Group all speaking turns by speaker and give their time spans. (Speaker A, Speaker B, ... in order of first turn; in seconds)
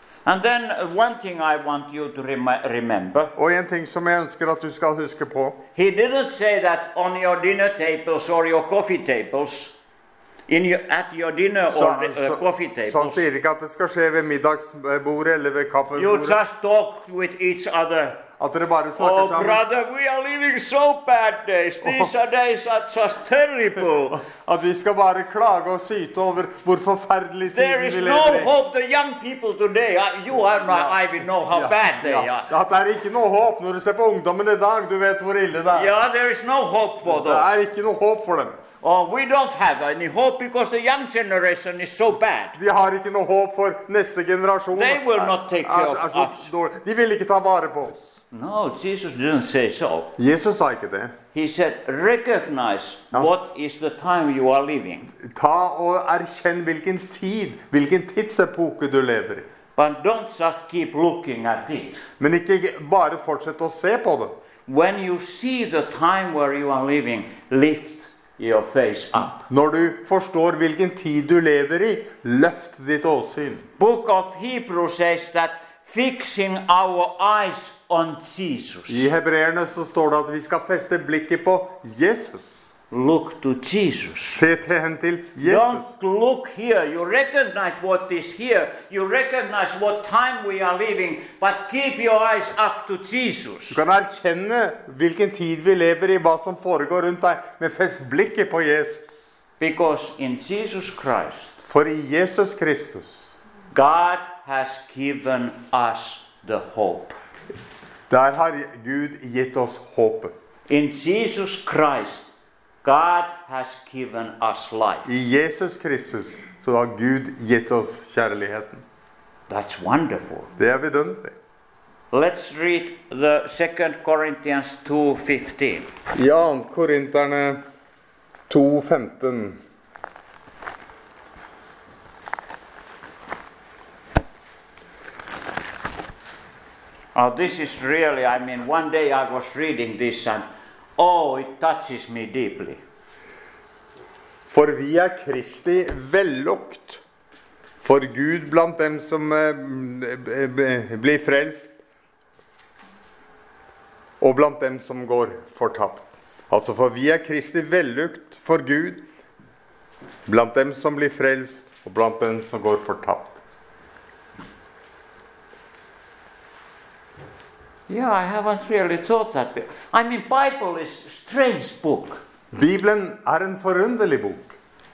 Speaker A: 0.2-3.3, 5.8-9.8, 10.5-13.2, 15.9-18.2, 18.9-24.2, 27.5-32.5, 35.7-37.5, 38.8-42.6, 44.7-46.5, 48.3-50.1, 51.3-55.1, 59.8-62.0, 64.7-69.5, 73.8-79.1, 82.9-84.4, 85.4-93.8, 99.6-101.5, 103.7-107.2, 110.7-112.3, 112.8-115.1, 119.5-120.5, 122.1-125.9, 137.1-140.4, 141.0-142.8, 167.9-172.2
Speaker B: 3.4-5.6, 11.7-16.4, 18.4-19.6, 21.8-22.1, 24.2-28.5, 30.7-35.9, 37.0-38.6, 42.6-48.0, 50.1-51.1, 55.2-59.5, 62.2-64.3, 69.5-73.7, 78.9-82.5, 84.2-85.8, 93.7-99.0, 101.7-103.3, 108.1-110.3, 115.0-118.8, 120.6-121.3, 126.1-127.6, 128.5-129.6, 144.5-147.0, 147.8-151.7, 154.2-159.0, 160.2-163.4, 172.5-174.6